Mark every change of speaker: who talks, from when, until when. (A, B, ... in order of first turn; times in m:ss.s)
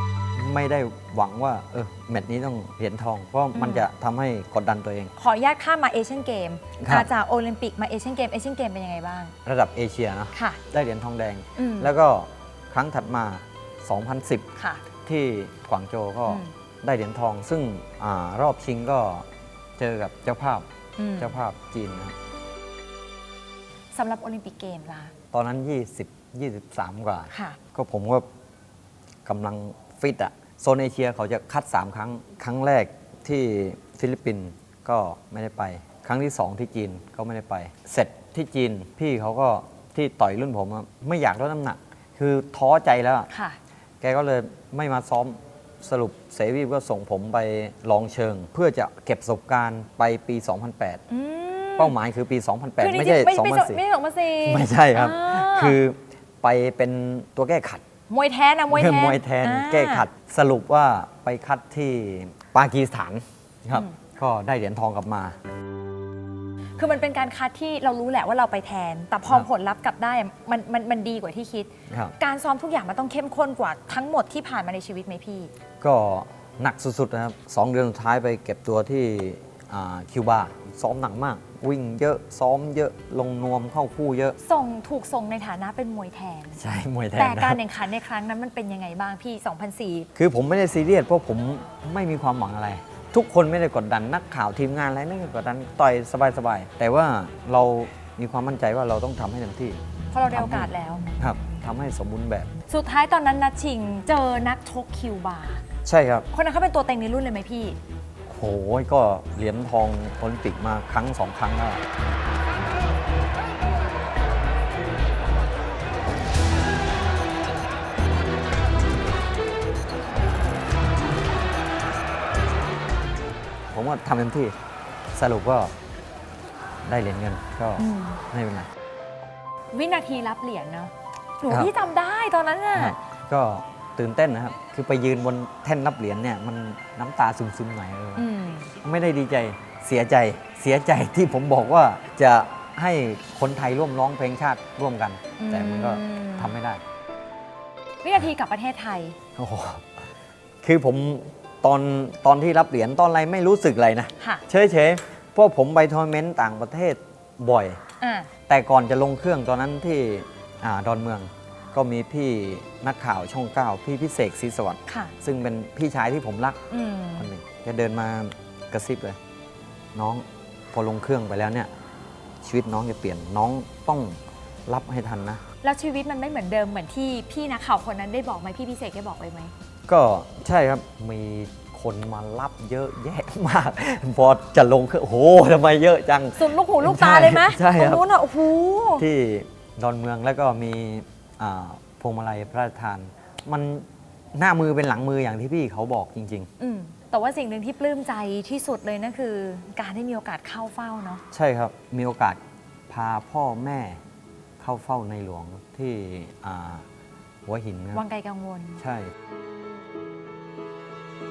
0:00.3-0:05.1 A
0:03.5-0:03.9 B
0:05.2-0:09.3 B
0:06.8-0:07.1 A
0:09.4-0:14.5 A
0:10.3-0:10.6 B
0:11.6-0:11.9 B
0:14.6-0:14.8 B
0:15.0-0:19.2 A
0:16.2-0:16.5 B
0:19.8-0:22.1 A
0:21.0-0:21.3 B
0:23.9-0:25.1 B
0:25.3-0:28.2 A
0:27.3-0:27.6 B
0:29.2-0:43.3 A
0:43.3-0:43.6 B
0:44.0-0:51.0 A
0:51.1-0:51.9 B
0:51.8-0:53.8 A
0:52.8-0:55.8 B
0:54.4-0:57.8 A
0:58.1-1:00.1 B
0:58.7-1:05.4 A
1:06.8-1:15.5 B
1:11.9-1:12.2 A
1:15.8-1:24.4 A
1:24.4-1:26.6 B
1:26.6-1:27.6 A
1:27.2-1:30.1 B
1:30.2-1:39.8 A
1:40.1-1:41.0 B
1:40.3-1:42.5 A
1:42.7-1:45.6 B
1:45.8-1:46.3 A
1:46.3-1:47.8 B
1:48.2-1:51.8 A
2:03.7-2:04.6 A
2:05.1-2:05.7 A
2:06.8-2:08.7 A
2:07.8-2:08.2 B
2:09.7-2:13.0 B
2:11.5-2:11.7 A
2:12.7-2:18.3 A
2:18.2-2:18.7 B
2:18.8-2:26.8 A
2:25.4-2:26.5 B
2:28.0-2:29.2 B
2:29.4-2:29.9 A
2:30.6-2:37.8 A
2:38.0-2:38.3 B
2:38.5-2:46.6 A
2:44.9-2:45.1 B
2:46.7-2:47.3 B
2:47.2-2:49.2 A
2:49.9-2:51.7 A
2:52.4-2:55.4 A
2:55.6-2:59.5 B
2:59.9-3:08.0 A
3:06.3-3:09.0 B
3:09.0-3:16.5 A
3:16.6-3:21.2 B
3:21.3-3:24.0 A
3:24.6-3:26.8 A
3:27.4-3:28.0 A
3:27.9-3:28.8 B
3:28.8-3:29.1 A